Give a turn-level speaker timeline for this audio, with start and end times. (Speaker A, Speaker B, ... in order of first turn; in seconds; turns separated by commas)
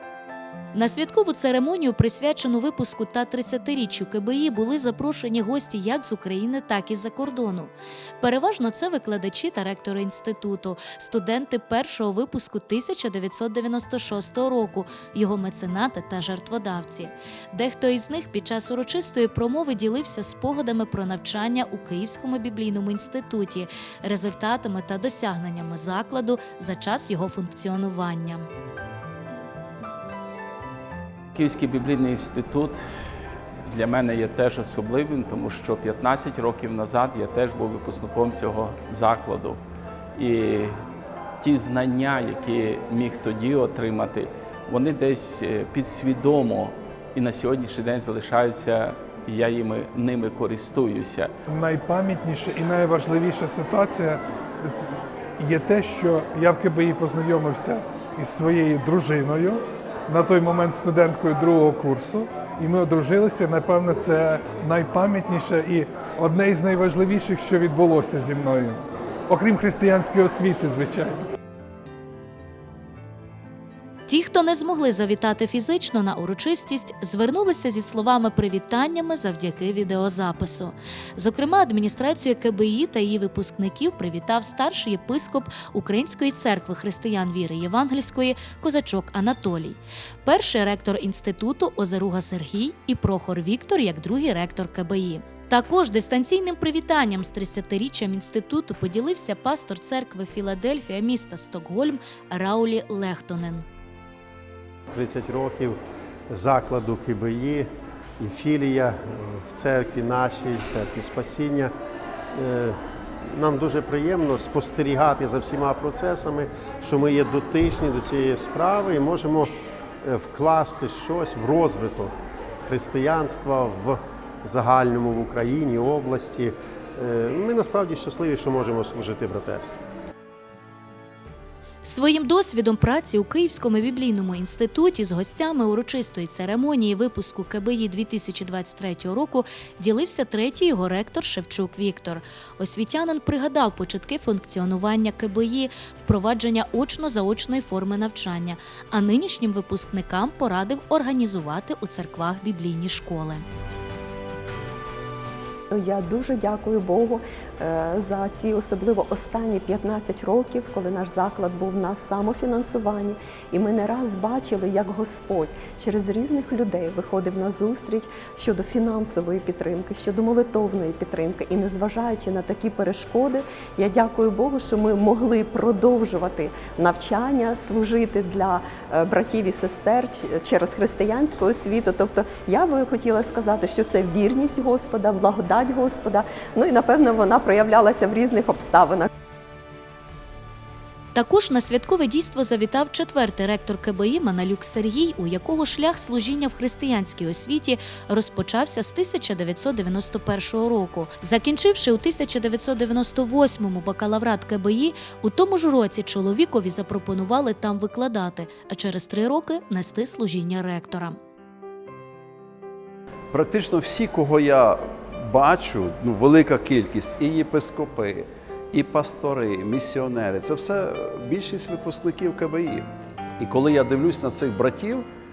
Speaker A: 0.7-28.5, Speaker B: 31.3-32.8, Speaker B: 33.7-39.6, Speaker B: 40.2-40.7, Speaker B: 41.4-51.3, Speaker C: 51.5-71.2, Speaker A: 74.1-103.7, Speaker D: 104.9-105.8, Speaker D: 106.3-111.7, Speaker D: 112.3-122.1, Speaker D: 122.7-129.8, Speaker A: 131.8-153.4, Speaker E: 155.7-189.1, Speaker A: 191.1-211.2, Speaker F: 213.3-222.9, Speaker F: 223.4-225.0